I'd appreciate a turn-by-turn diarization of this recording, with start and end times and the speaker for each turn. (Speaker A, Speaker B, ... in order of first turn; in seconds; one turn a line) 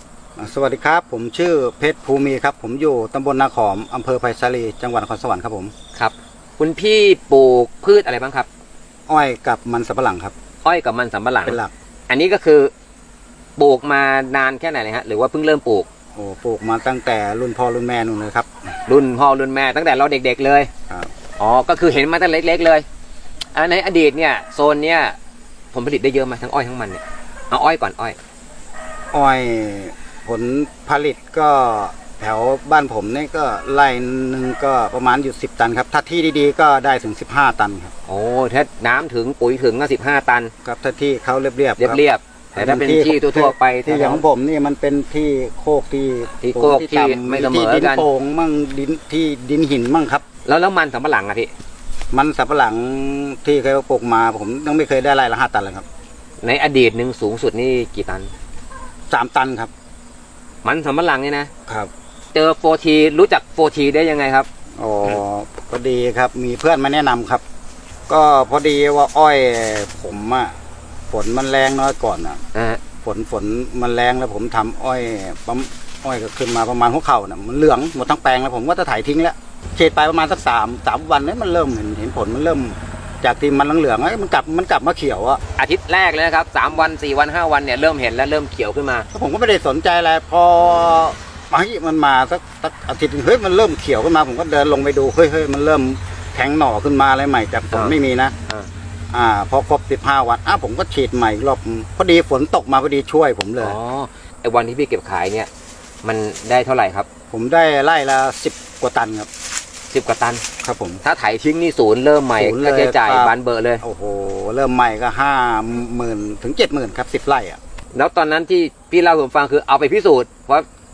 Speaker A: 0.4-5.7
Speaker B: 6.0-8.5
Speaker A: 9.1-10.3
Speaker B: 10.6-12.7
Speaker A: 11.4-11.7
Speaker B: 13.6-15.9
Speaker A: 16.1-18.5
Speaker B: 18.9-20.7
Speaker B: 21.4-22.9
Speaker B: 23.6-25.2
Speaker B: 25.7-28.2
Speaker A: 29.1-37.9
Speaker B: 38.1-40.5
Speaker A: 40.6-42.0
Speaker B: 41.8-44.2
Speaker A: 42.5-50.2
Speaker B: 46.4-48.1
Speaker B: 50.5-51.5
Speaker A: 52.1-55.9
Speaker B: 56.4-58.3
Speaker A: 59.1-59.7
Speaker B: 60.6-61.5
Speaker B: 62.3-64.5
Speaker A: 64.8-67.4
Speaker A: 68.1-70.5
Speaker A: 71.1-72.4
Speaker B: 72.5-72.8
Speaker A: 73.0-85.4
Speaker B: 85.6-89.1
Speaker A: 89.1-98.3
Speaker B: 97.7-98.0
Speaker A: 99.1-103.8
Speaker B: 103.6-105.5
Speaker B: 106.0-107.1
Speaker A: 107.3-109.3
Speaker B: 109.9-110.4
Speaker A: 110.6-111.0
Speaker B: 111.0-113.8
Speaker A: 112.4-117.6
Speaker B: 117.9-120.7